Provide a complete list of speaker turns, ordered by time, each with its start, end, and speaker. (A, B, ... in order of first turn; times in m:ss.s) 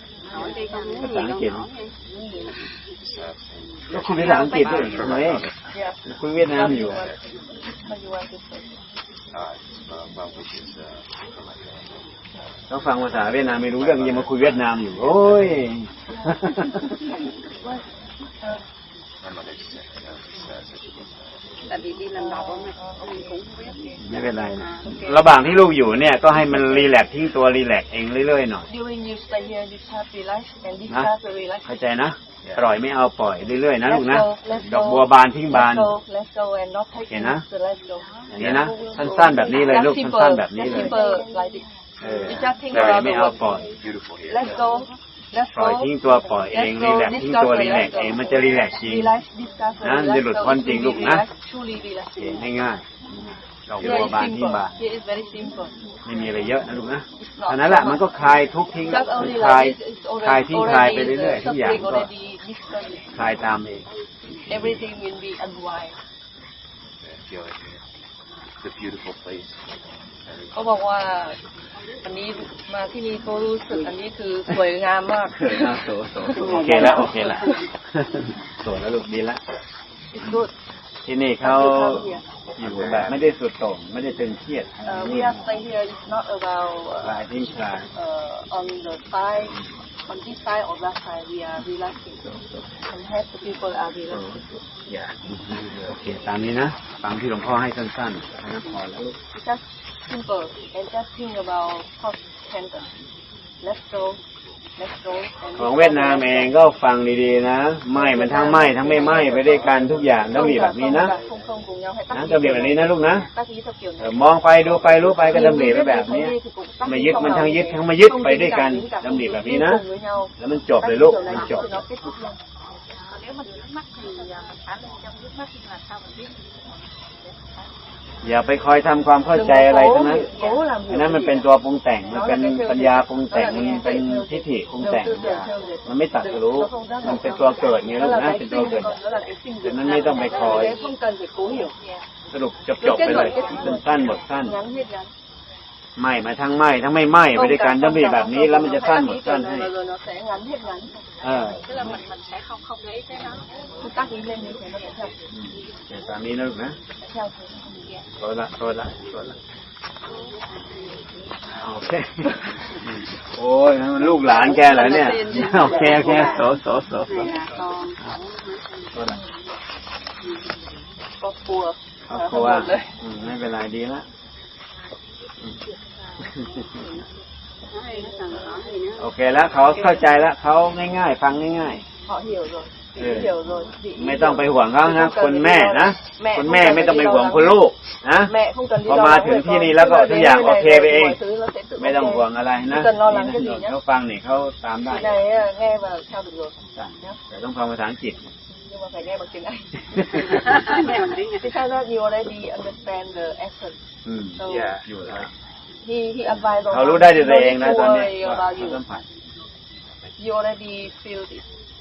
0:00.2-0:01.2 A
0:00.2-0:02.8 B
0:01.0-0:01.7 C
0:02.1-0:02.4 A
0:03.0-0:05.8 D
0:03.9-0:05.5 C
0:04.2-0:04.9 A
0:04.3-0:04.6 E
0:05.7-0:08.8 A
0:06.1-0:07.0 C
0:06.6-0:07.1 D
0:09.3-0:12.1 D
0:12.7-0:16.9 C
0:13.1-0:15.6 D
0:19.2-0:21.5 D
0:21.6-0:25.0 B
0:22.1-0:24.0 A
0:24.0-0:28.7 C
0:24.8-0:25.3 A
0:28.7-0:31.7 A
0:31.6-0:35.9 C
0:32.4-0:32.8 D
0:33.8-0:41.6 A
0:37.1-0:37.4 C
0:38.3-0:41.0 C
0:38.4-0:38.7 D
0:40.6-0:41.7 B
0:42.0-0:43.7 C
0:42.0-0:43.1 D
0:42.2-0:43.7 A
0:43.7-0:44.6 D
0:44.2-0:52.6 A
0:45.5-0:49.2 C
0:49.8-0:51.2 C
0:52.2-0:54.7 C
0:53.8-0:55.8 A
0:53.8-0:54.1 D
0:56.0-1:02.1 C
0:57.2-0:58.2 A
0:58.9-1:03.2 A
1:03.1-1:03.9 C
1:04.5-1:04.8 D
1:04.5-1:06.0 A
1:07.0-1:07.8 D
1:08.6-1:10.6 D
1:10.5-1:11.4 A
1:12.0-1:17.6 A
1:15.3-1:19.4 C
1:16.3-1:17.5 B
1:20.1-1:20.5 A
1:21.0-1:25.5 C
1:21.4-1:22.2 A
1:22.5-1:23.2 D
1:24.8-1:27.2 A
1:27.0-1:27.9 C
1:27.9-1:29.6 A
1:30.1-1:32.2 A
1:32.2-1:32.6 C
1:32.8-1:34.3 A
1:34.1-1:39.2 C
1:39.3-1:42.9 A
1:43.6-1:44.2 A
1:44.8-1:46.6 A
1:45.5-1:51.2 C
1:47.9-1:49.8 A
1:49.3-1:51.5 D
1:50.3-1:54.3 A
1:52.1-1:53.3 C
1:54.0-1:59.8 C
1:55.3-2:02.4 A
2:00.4-2:01.7 C
2:01.1-2:01.9 B
2:02.9-2:07.7 E
2:04.0-2:04.5 B
2:08.2-2:19.0 C
2:09.3-2:11.5 A
2:12.1-2:21.7 A
2:19.6-2:20.8 C
2:19.9-2:22.1 E
2:22.3-2:24.6 C
2:22.8-2:25.1 A
2:23.0-2:24.3 E
2:26.0-2:29.7 C
2:27.3-2:31.0 A
2:31.2-2:32.0 C
2:31.5-2:33.5 E
2:33.8-2:35.1 A
2:35.3-2:36.8 C
2:37.0-2:37.8 A
2:38.2-2:39.4 C
2:40.0-2:40.4 E
2:40.5-2:41.0 B
2:41.6-2:47.4 C
2:44.0-2:46.4 A
2:45.4-2:46.5 B
2:47.0-2:49.4 B
2:48.9-2:49.2 C
2:51.2-2:53.0 A
2:52.1-2:54.0 C
2:56.2-2:56.9 C
2:57.7-2:59.1 B
2:57.9-2:58.8 A
2:59.0-3:01.8 C
2:59.6-3:00.1 A
3:02.0-3:07.6 A
3:03.0-3:11.2 C
3:08.2-3:13.8 A
3:11.8-3:15.2 C
3:14.8-3:17.2 A
3:16.7-3:18.2 C
3:18.5-3:20.7 A
3:20.0-3:20.4 C
3:20.3-3:21.5 B
3:21.4-3:23.8 A
3:24.0-3:25.3 C
3:24.4-3:24.8 A
3:24.4-3:25.3 D
3:25.8-3:28.8 A
3:26.3-3:29.0 C
3:30.2-3:31.4 A